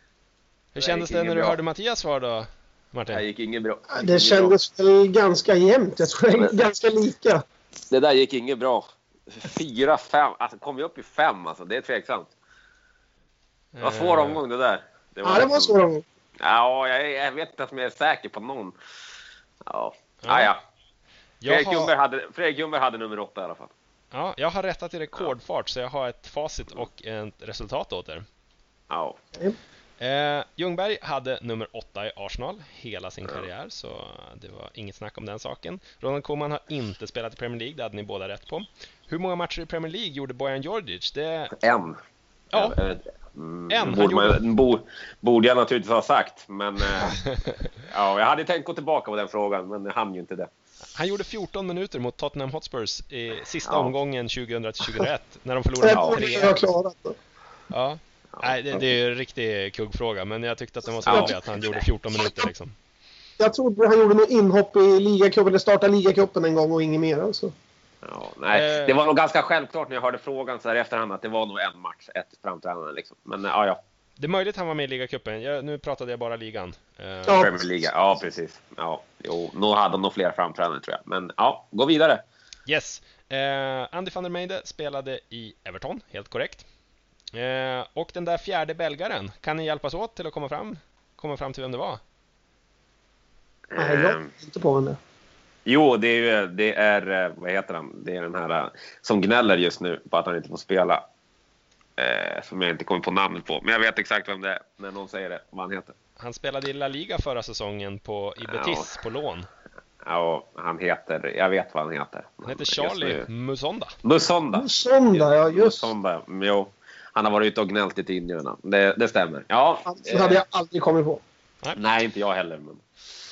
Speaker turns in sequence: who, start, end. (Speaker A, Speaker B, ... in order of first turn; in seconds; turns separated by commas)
Speaker A: 0.7-3.2, Speaker B: 0.8-1.6, Speaker B: 3.1-4.5, Speaker C: 3.9-7.4, Speaker B: 7.9-12.3, Speaker A: 13.7-14.4, Speaker B: 13.8-15.8, Speaker C: 15.2-16.0, Speaker B: 16.4-18.8, Speaker B: 19.7-20.6, Speaker A: 20.2-20.5, Speaker A: 21.4-21.9, Speaker B: 21.5-23.7, Speaker A: 24.1-28.2, Speaker B: 28.9-29.2, Speaker A: 30.0-41.5, Speaker B: 41.6-42.0, Speaker B: 42.5-47.2, Speaker A: 43.7-44.4, Speaker A: 47.0-47.5, Speaker B: 47.8-50.5, Speaker A: 51.0-56.7, Speaker B: 53.7-53.9, Speaker C: 55.8-57.1, Speaker B: 55.9-56.6, Speaker A: 57.7-62.7, Speaker B: 58.3-58.9, Speaker B: 61.0-61.8, Speaker C: 61.1-61.3, Speaker C: 63.4-67.5, Speaker B: 68.0-73.8, Speaker A: 68.5-69.0, Speaker A: 74.2-77.5, Speaker C: 77.2-77.7, Speaker B: 77.3-82.2, Speaker A: 82.7-86.7, Speaker A: 87.3-92.0, Speaker B: 93.7-94.3, Speaker C: 93.8-95.0, Speaker B: 95.7-101.0, Speaker B: 102.0-105.9, Speaker A: 106.2-109.5, Speaker B: 108.4-108.9, Speaker B: 110.0-113.3, Speaker A: 112.5-114.0, Speaker B: 114.0-120.4, Speaker C: 114.5-115.9, Speaker C: 119.9-121.2, Speaker B: 121.8-122.8